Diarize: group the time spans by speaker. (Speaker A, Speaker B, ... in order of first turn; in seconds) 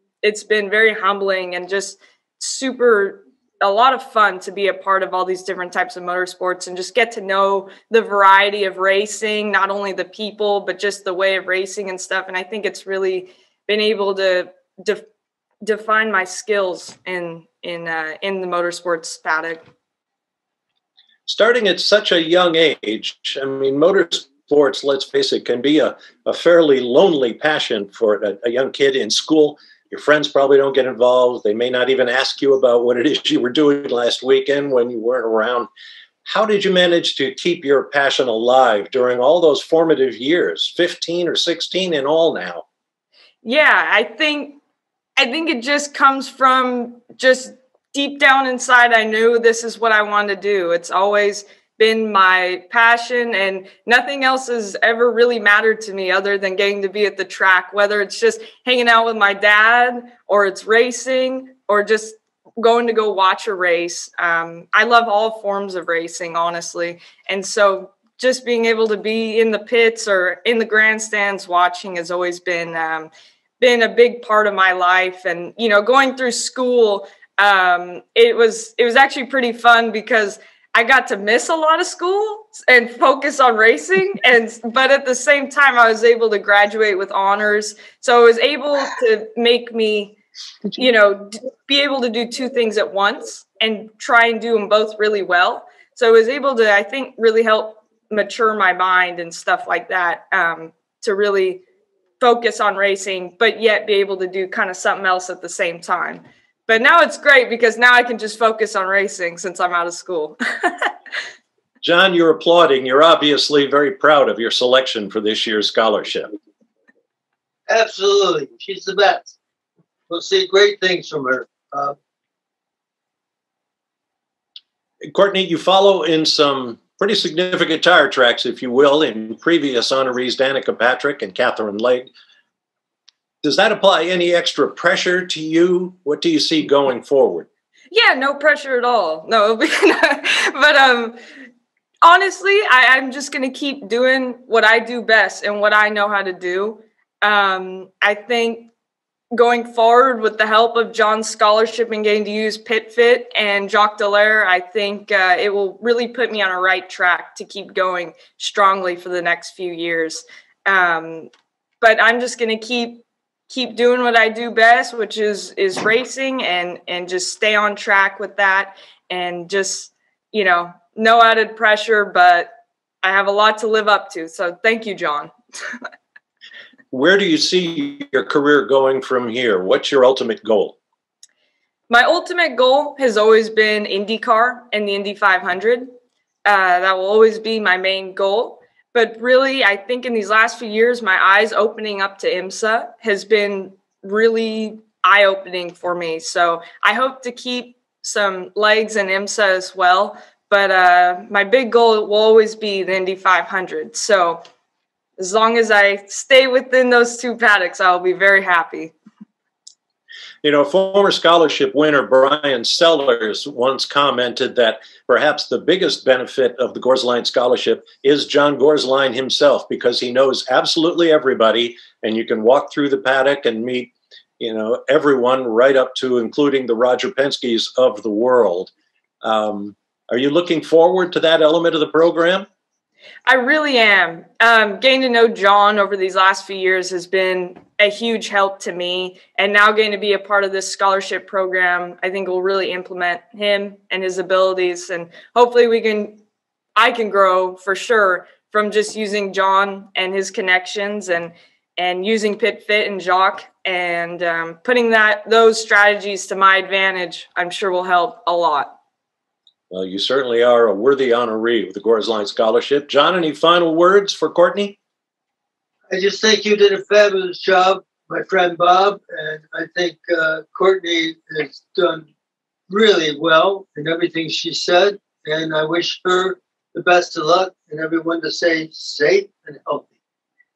Speaker A: 0.2-15.1, 15.6-19.6, 43.4-44.6, 45.2-90.2, 90.7-101.6, 102.2-110.9, 137.9-141.2, 142.0-148.7, 149.3-161.3, 161.8-175.3, 181.9-185.9, 186.5-204.4, 205.2-208.9, 233.3-246.2, 246.8-258.8
Speaker B: 21.3-35.7, 36.2-42.6, 111.8-116.3, 125.1-132.1, 133.4-137.5, 176.9-180.8, 210.4-228.7, 229.2-232.5, 259.7-264.8
Speaker C: 117.7-119.3, 120.1-122.0, 265.9-272.1, 272.7-279.9